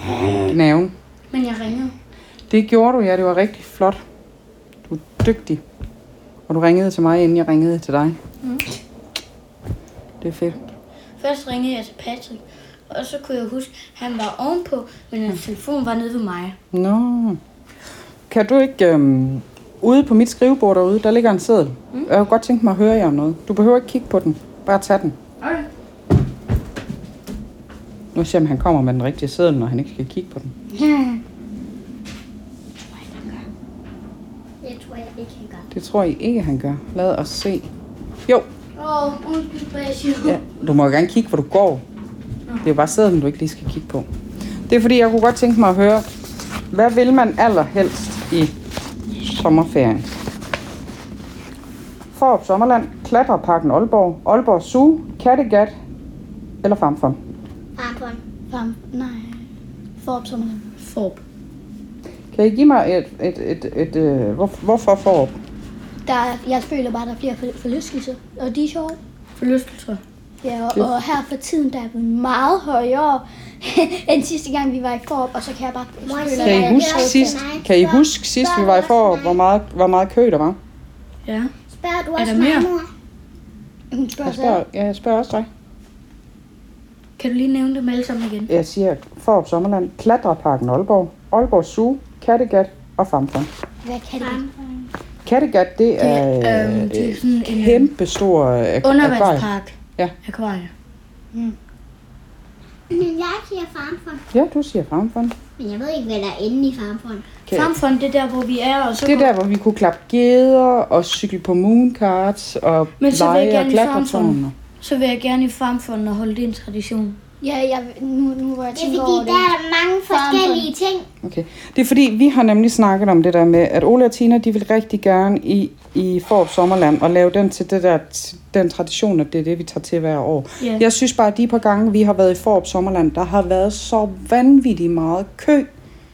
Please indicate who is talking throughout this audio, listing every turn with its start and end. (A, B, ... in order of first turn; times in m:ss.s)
0:00.4-0:00.9 A
0:01.3-0:01.9 B
0:02.5-0:04.0 A
0:04.9-0:05.6 A
0:06.5-0:08.2 A
0:10.2-0:10.6 A
0:11.2-0:16.6 B
0:16.7-0:17.4 A
0:18.3-0:25.2 A
0:28.1-0:30.5 A
0:30.7-0:31.2 C
0:33.0-0:33.4 C
0:34.6-0:35.7 C
0:35.7-0:37.7 A
0:38.8-0:40.4 B
0:40.2-0:41.8 A
0:42.6-0:44.1 A
0:44.7-0:46.0 A
0:46.7-0:48.5 A
0:49.1-0:50.1 A
0:52.1-0:55.7 A
0:56.6-0:57.2 A
0:57.8-0:58.2 D
0:58.5-0:59.5 C
1:00.0-1:00.6 C
1:00.8-1:01.2 B
1:02.3-1:05.4 A
1:06.0-1:09.0 C
1:09.4-1:10.0 B
1:10.4-1:17.4 C
1:16.0-1:19.2 D
1:16.4-1:20.6 A
1:18.5-1:18.8 C
1:21.2-1:21.5 B
1:21.7-1:22.9 D
1:22.1-1:22.7 B
1:23.9-1:24.6 C
1:24.2-1:25.5 A
1:27.2-1:28.5 B
1:28.5-1:33.5 A
1:33.8-1:34.9 C
1:35.2-1:40.1 A
1:36.0-1:37.9 B
1:38.8-1:40.7 B
1:42.9-1:44.2 D
1:44.3-1:45.4 A
1:45.6-1:47.2 D
1:47.4-1:47.7 A
1:47.5-1:49.3 B
1:49.0-1:54.5 A
1:53.0-1:57.2 B
1:57.4-1:59.5 C
1:58.7-2:01.1 D
2:00.1-2:00.7 C
2:00.4-2:00.6 B
2:01.2-2:15.7 A